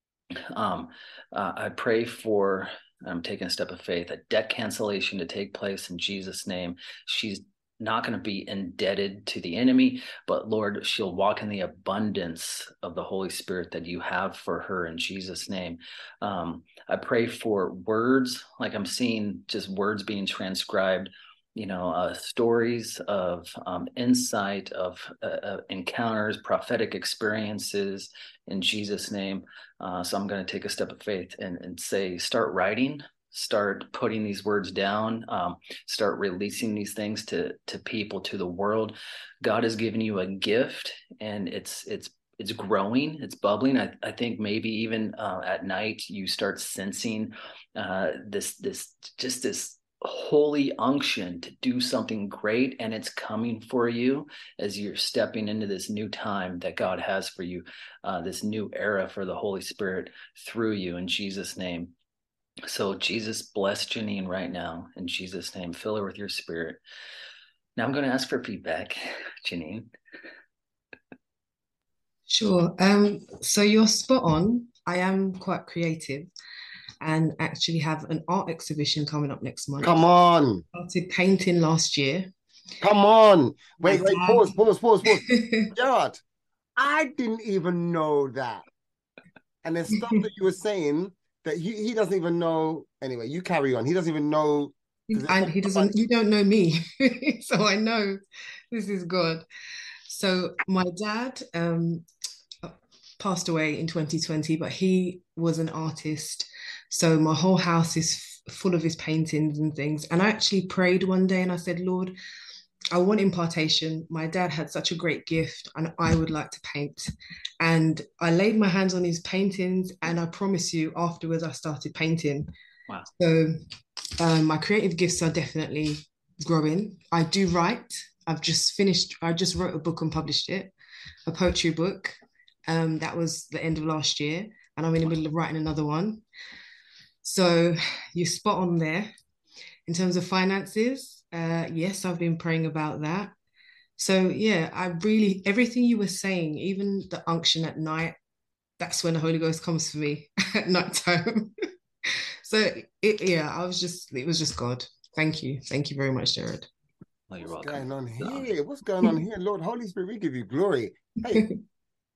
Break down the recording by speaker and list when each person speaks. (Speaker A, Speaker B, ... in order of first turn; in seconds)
Speaker A: 0.5-61.9, 62.7-66.8, 67.8-69.9, 157.3-158.5
Speaker B: 72.3-76.3, 77.0-80.0, 80.8-82.3, 83.8-84.5, 85.3-85.7, 95.1-98.2, 98.7-99.5, 100.1-102.1, 102.6-112.2, 112.9-122.5, 123.2-130.7, 131.3-136.2, 137.2-139.1, 139.9-143.3, 144.0-148.2, 148.8-151.7, 152.4-156.7
Speaker C: 79.8-80.7, 82.8-86.2, 86.8-88.7, 89.6-95.9, 157.5-161.5